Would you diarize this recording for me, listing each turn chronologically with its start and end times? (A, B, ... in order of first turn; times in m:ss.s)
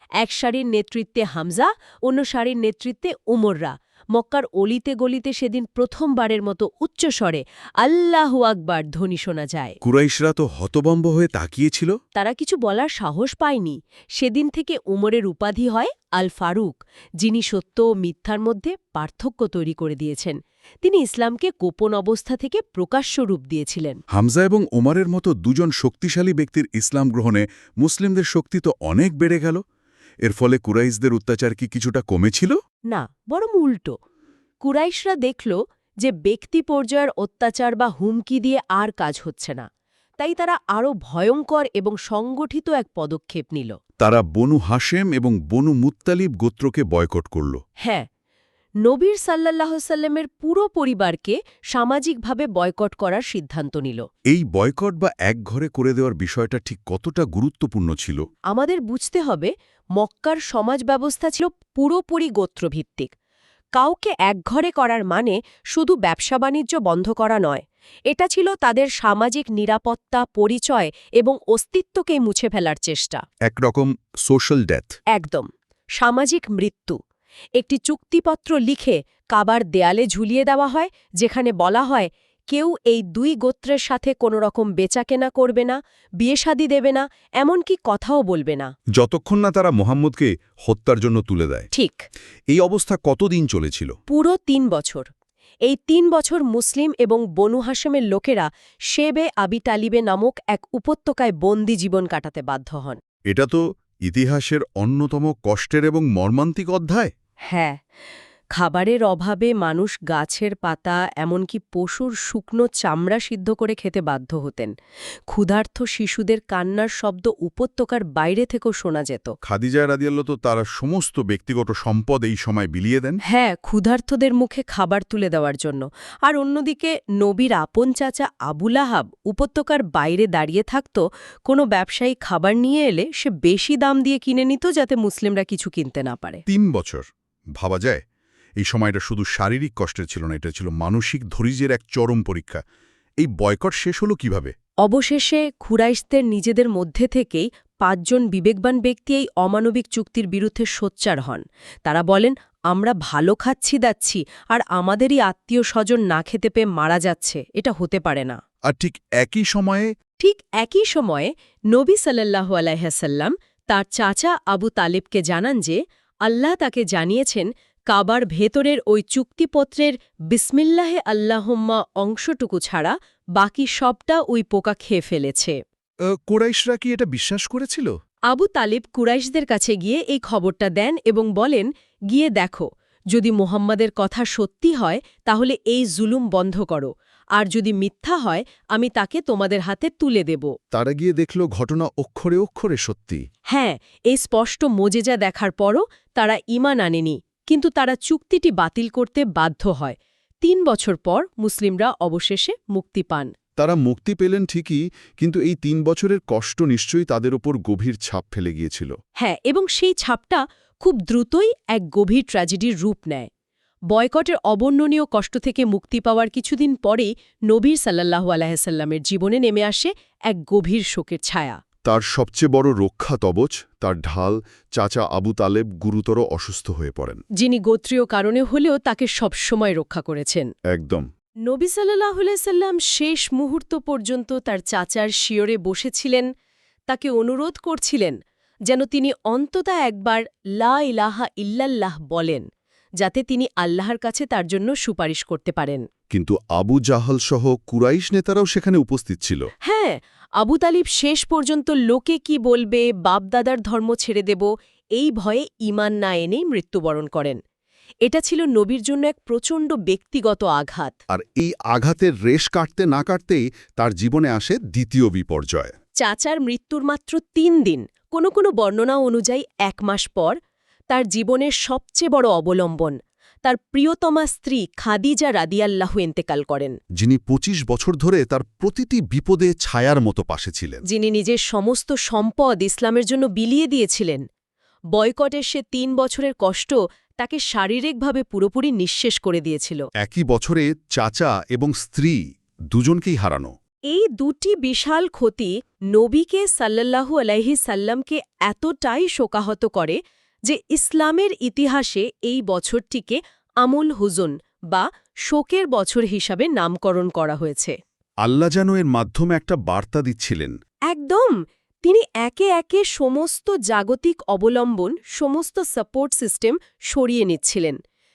0:00.2-0:09.8 A
0:09.8-0:11.9 B
0:12.2-0:24.0 A
0:24.1-0:29.6 B
0:30.2-0:32.6 B
0:32.9-0:34.0 A
0:34.6-0:39.6 A
0:40.2-0:43.7 A
0:44.0-0:47.6 B
0:48.8-0:54.0 A
0:54.3-0:58.2 B
0:58.5-1:03.1 A
1:03.8-1:13.2 A
1:13.4-1:14.9 B
1:15.1-1:17.0 A
1:17.6-1:28.7 A
1:29.0-1:31.7 B
1:31.7-1:32.0 A
1:32.5-1:33.9 B
1:34.1-1:35.1 A
1:35.6-1:43.0 A
1:43.3-1:47.1 B
1:47.5-1:47.8 A
1:48.6-1:54.7 A
1:55.3-1:59.4 A
1:59.4-2:03.2 B
2:03.3-2:16.4 A
2:16.4-2:17.0 B
2:17.6-2:18.0 B
2:18.6-2:22.6 B
2:23.2-2:24.5 B
2:24.8-2:38.4 A
2:38.7-2:39.9 B
2:40.2-2:55.6 A
2:56.1-2:57.9 B
2:58.3-3:10.5 A
3:10.7-3:13.2 B
3:13.5-3:23.3 A
3:23.6-3:28.9 B
3:29.2-3:33.3 A
3:33.9-3:41.6 A
3:41.8-3:47.2 B
3:47.4-3:50.5 A
3:50.7-3:51.0 B
3:51.5-3:56.3 A
3:56.9-3:58.2 A
3:58.7-4:02.4 A
4:03.0-4:05.8 A
4:06.1-4:09.5 B
4:09.6-4:17.4 A
4:18.0-4:20.9 A
4:21.1-4:25.7 B
4:26.0-4:30.4 A
4:30.9-4:36.8 A
4:37.0-4:40.8 B
4:40.9-4:44.2 A
4:44.9-4:49.9 A
4:50.0-4:52.2 B
4:52.7-4:53.5 B
4:53.9-5:07.8 A
5:08.2-5:10.6 B
5:10.9-5:17.8 A